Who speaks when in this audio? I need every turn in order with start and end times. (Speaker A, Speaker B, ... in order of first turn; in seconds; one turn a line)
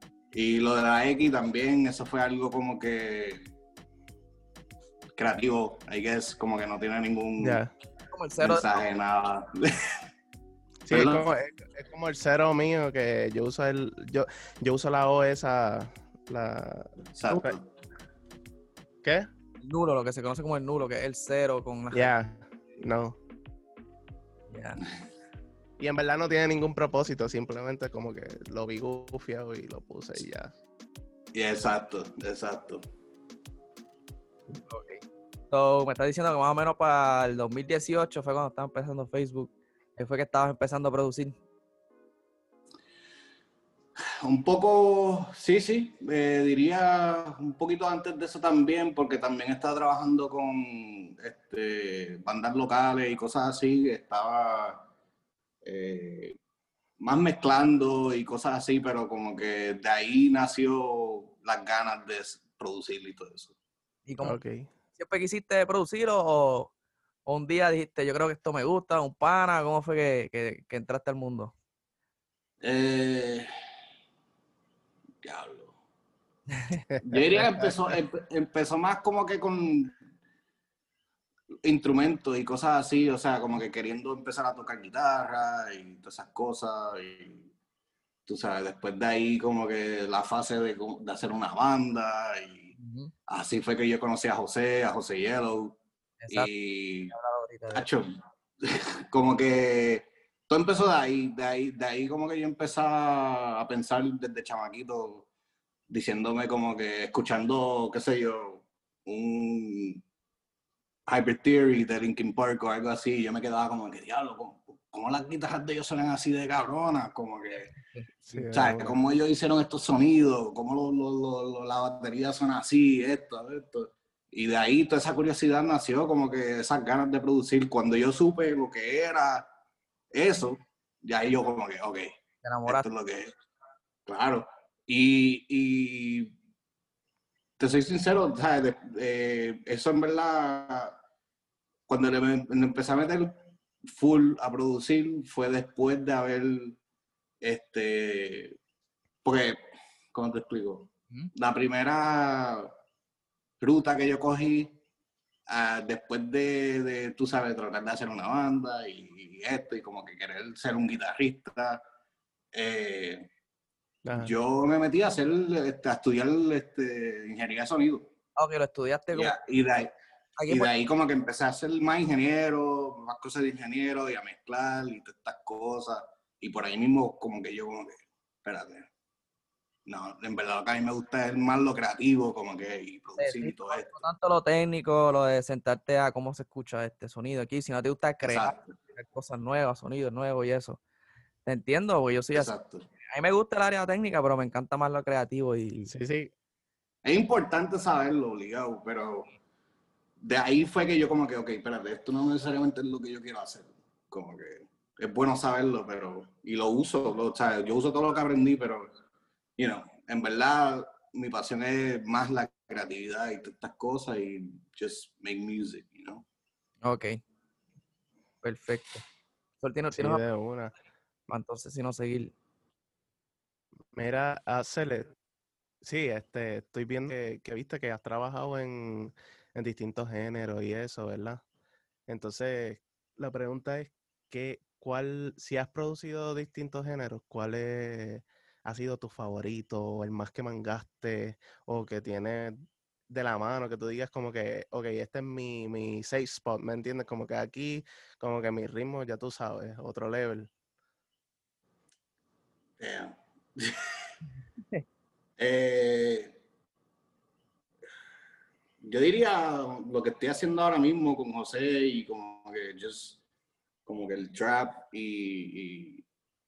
Speaker A: 0.3-3.4
Speaker A: 5.2-7.6
Speaker B: 7.4-7.7
Speaker C: 8.1-8.7
Speaker A: 8.4-9.9
Speaker B: 10.8-17.6
Speaker A: 10.9-11.2
Speaker A: 17.1-17.6
Speaker C: 19.6-22.1
Speaker B: 21.9-23.2
Speaker C: 24.5-24.8
Speaker B: 25.8-30.5
Speaker A: 31.3-32.8
Speaker C: 34.7-41.4
Speaker A: 44.0-54.8
Speaker A: 55.6-56.4
Speaker A: 57.0-63.5
Speaker C: 64.1-64.4
Speaker B: 64.2-64.7
Speaker C: 65.0-66.7
Speaker C: 67.3-71.5
Speaker A: 72.6-73.5
Speaker A: 75.2-75.7
Speaker B: 76.9-77.9
Speaker A: 77.0-80.0
Speaker A: 81.6-87.5
Speaker A: 88.2-92.7
Speaker C: 92.8-93.1
Speaker A: 93.3-95.8
Speaker C: 96.2-96.5
Speaker A: 96.3-97.1
Speaker C: 97.1-97.9
Speaker A: 97.7-105.2
Speaker A: 105.9-110.0
Speaker A: 111.1-117.7
Speaker C: 117.9-118.5
Speaker B: 118.2-119.0
Speaker A: 118.5-129.5
Speaker A: 130.1-132.1
Speaker C: 132.4-132.8
Speaker A: 132.7-133.3
Speaker A: 134.1-136.3
Speaker A: 137.6-141.0
Speaker A: 141.9-143.3
Speaker A: 143.9-146.8
Speaker A: 147.4-148.6
Speaker A: 149.2-149.6
Speaker A: 150.1-152.7
Speaker A: 153.6-154.7
Speaker A: 155.5-161.8
Speaker A: 162.5-163.3
Speaker B: 164.0-164.3
Speaker A: 164.2-168.1
Speaker C: 168.4-169.3
Speaker A: 169.1-169.9
Speaker C: 170.4-170.7
Speaker A: 170.5-178.9
Speaker A: 179.8-183.9
Speaker C: 183.2-190.8
Speaker A: 188.2-188.8
Speaker C: 191.4-192.5
Speaker A: 192.3-192.8
Speaker C: 193.1-195.9
Speaker B: 195.8-196.3
Speaker A: 197.0-199.3
Speaker A: 200.2-208.9
Speaker A: 209.6-216.2
Speaker C: 216.8-217.2
Speaker C: 218.4-219.0
Speaker C: 219.6-220.2
Speaker B: 219.9-220.7
Speaker C: 221.3-222.3
Speaker B: 223.9-225.1
Speaker B: 225.8-231.4
Speaker B: 232.1-250.5
Speaker A: 252.8-253.9
Speaker A: 255.4-256.4
Speaker A: 258.8-263.2
Speaker A: 263.9-266.0